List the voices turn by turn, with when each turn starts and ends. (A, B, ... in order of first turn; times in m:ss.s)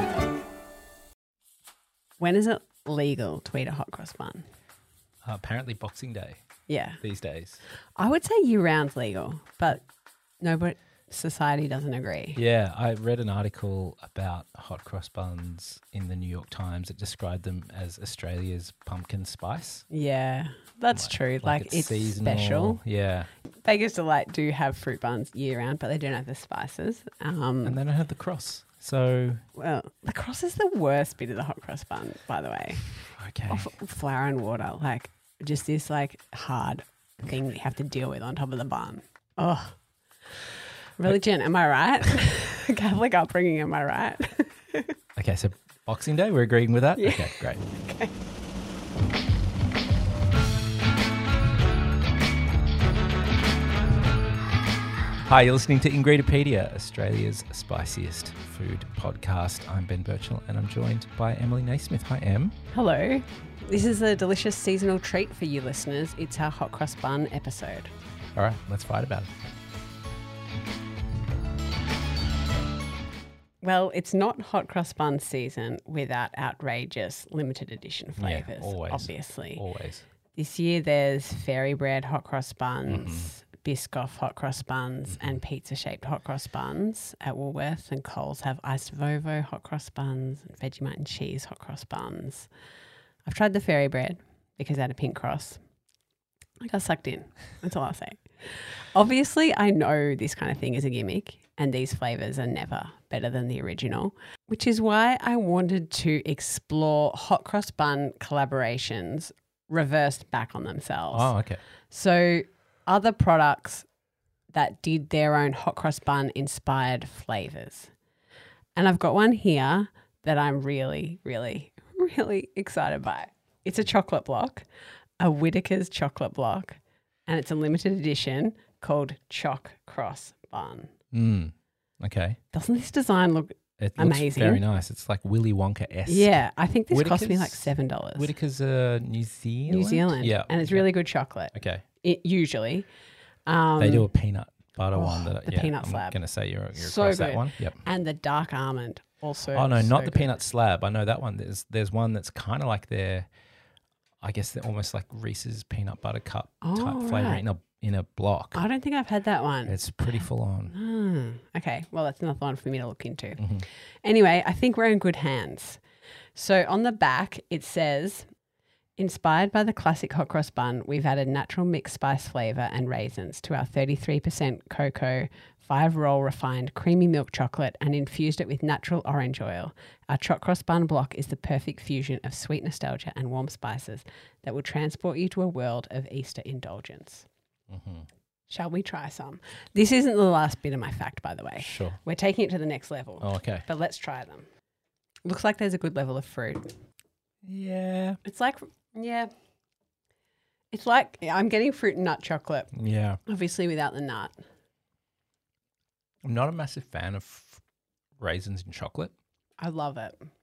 0:02.2-0:04.5 A
0:05.2-0:06.4 B
0:06.7-0:07.0 A
0:07.0-0:07.6 B
0:08.0-0:09.8 A
0:10.4-0:12.4 A
0:12.4-0:19.8 B
0:19.9-0:22.8 A
0:20.9-0:23.3 B
0:23.6-0:27.8 A
0:27.6-0:29.4 B
0:29.6-0:32.9 A
0:33.1-0:33.7 B
0:33.5-0:39.8 A
0:41.0-0:45.0 A
0:45.2-0:47.6 B
0:47.0-0:48.1 A
0:55.3-1:02.5 B
1:02.7-1:07.9 A
1:08.4-1:09.3 B
1:13.6-1:19.6 A
1:18.2-1:20.0 B
1:20.3-1:32.5 A
1:22.9-1:23.3 B
1:33.2-1:35.6 A
1:36.6-1:51.3 A
1:51.1-1:51.6 B
1:51.9-1:53.9 A
1:54.5-1:57.9 A
1:58.8-2:04.6 A
2:05.2-2:10.9 A
2:11.1-2:12.4 B
2:12.5-2:14.6 A
2:13.8-2:20.9 B
2:16.1-2:18.3 A
2:19.7-2:22.9 A
2:21.5-2:21.8 B
2:23.5-2:24.1 A
2:23.8-2:27.8 B
2:25.0-2:26.2 A
2:26.8-2:30.3 A
2:29.5-2:33.3 B
2:34.2-2:38.6 B
2:36.6-2:37.4 A
2:38.6-2:39.8 A
2:39.7-2:40.7 B
2:40.7-2:45.8 A
2:43.4-2:43.7 B
2:46.3-2:48.3 A
2:49.0-3:07.3 A
3:07.7-3:08.1 B
3:08.5-3:14.5 A
3:11.6-3:12.0 B
3:13.2-3:13.6 B
3:15.2-3:16.7 A
3:17.4-3:18.2 B
3:18.2-3:19.3 A
3:20.7-3:22.7 A
3:22.7-3:23.2 B
3:23.2-3:24.4 A
3:26.2-3:27.6 B
3:28.2-3:29.1 B
3:29.6-3:30.3 A